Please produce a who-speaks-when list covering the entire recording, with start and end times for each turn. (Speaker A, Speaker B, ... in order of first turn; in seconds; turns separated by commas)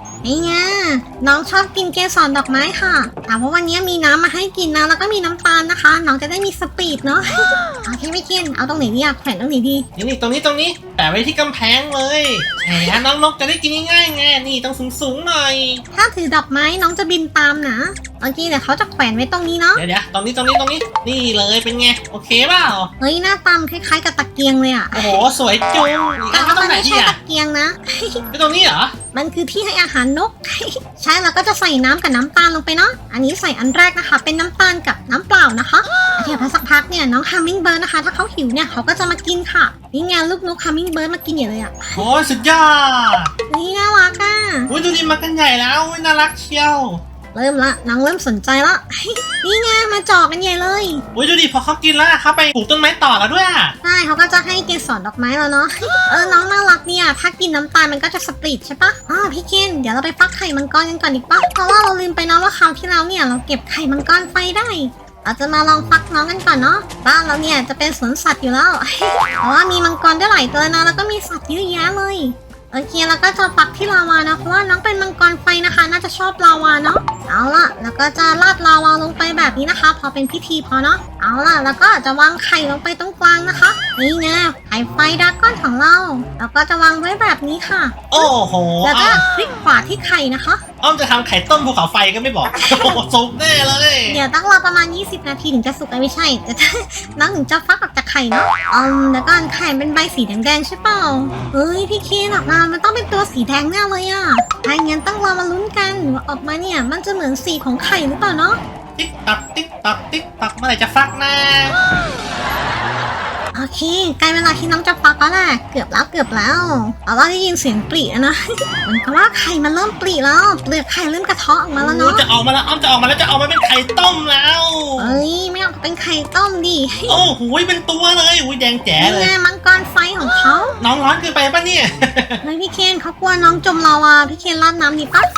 Speaker A: 0.2-9.9, Speaker B: 9.9-15.8, Speaker A: 15.9-19.8, Speaker B: 19.8-22.9, Speaker A: 23.0-25.2, Speaker B: 24.9-27.2, Speaker A: 26.3-28.3, Speaker B: 28.3-28.9, Speaker A: 29.1-42.0, Speaker B: 42.0-43.3, Speaker A: 43.5-44.7, Speaker B: 44.7-47.0, Speaker A: 47.3-51.0, Speaker B: 51.1-53.8, Speaker A: 53.8-88.3, Speaker B: 88.1-89.2, Speaker A: 88.8-90.6, Speaker B: 90.8-94.2, Speaker A: 92.5-93.0, Speaker A: 94.1-108.6, Speaker B: 109.0-111.8, Speaker A: 113.5-122.2, Speaker B: 121.8-125.2, Speaker A: 125.0-127.2, Speaker B: 127.1-129.3, Speaker A: 129.0-130.8, Speaker B: 130.8-132.4, Speaker A: 132.4-135.3